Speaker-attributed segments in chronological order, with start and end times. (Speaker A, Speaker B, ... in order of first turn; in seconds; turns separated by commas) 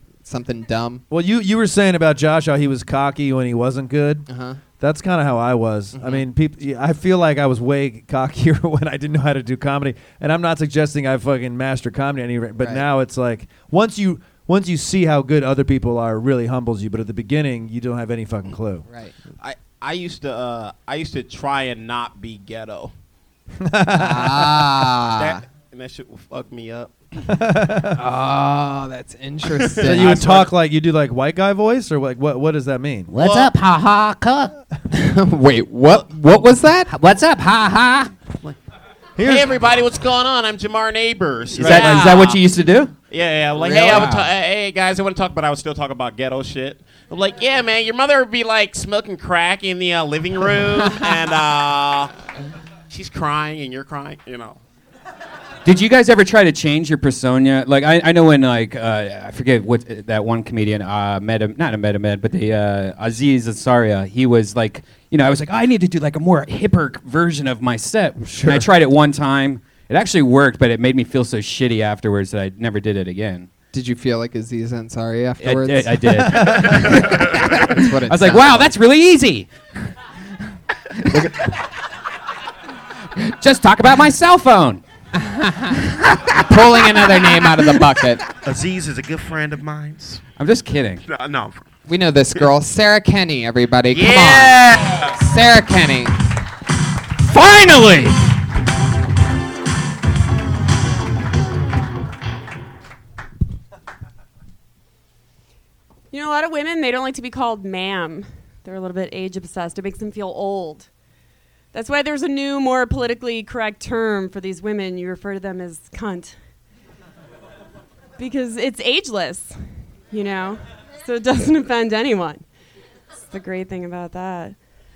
Speaker A: 0.2-1.0, Speaker B: 1.1-4.2, Speaker A: 4.3-4.6, Speaker B: 4.8-18.8, Speaker A: 5.9-6.2, Speaker A: 12.6-12.8, Speaker A: 18.9-19.1, Speaker C: 19.4-22.9, Speaker B: 23.6-24.7, Speaker A: 23.9-25.4, Speaker C: 25.0-26.9, Speaker B: 27.3-28.0, Speaker A: 27.9-30.4, Speaker C: 29.5-30.5, Speaker B: 29.8-33.2, Speaker D: 33.1-34.5, Speaker C: 33.2-33.4, Speaker A: 34.9-36.9, Speaker D: 36.9-38.1, Speaker C: 39.2-42.4, Speaker B: 39.2-39.5, Speaker D: 41.5-42.9, Speaker B: 41.6-41.9, Speaker C: 43.1-52.1, Speaker D: 43.6-44.3, Speaker A: 43.7-44.1, Speaker C: 52.9-54.6, Speaker D: 55.6-73.5, Speaker B: 68.2-68.7, Speaker A: 73.7-78.7, Speaker D: 75.4-79.5, Speaker B: 76.3-76.8, Speaker D: 81.1-81.4, Speaker D: 83.2-84.8, Speaker A: 85.2-85.7, Speaker A: 86.4-88.2, Speaker C: 88.4-90.2, Speaker D: 90.4-91.0, Speaker C: 91.0-91.6, Speaker A: 91.9-96.1, Speaker C: 93.9-95.2, Speaker D: 97.3-98.2, Speaker E: 106.1-110.9, Speaker E: 111.7-116.3, Speaker E: 118.2-119.5, Speaker E: 120.1-122.4, Speaker E: 123.3-124.5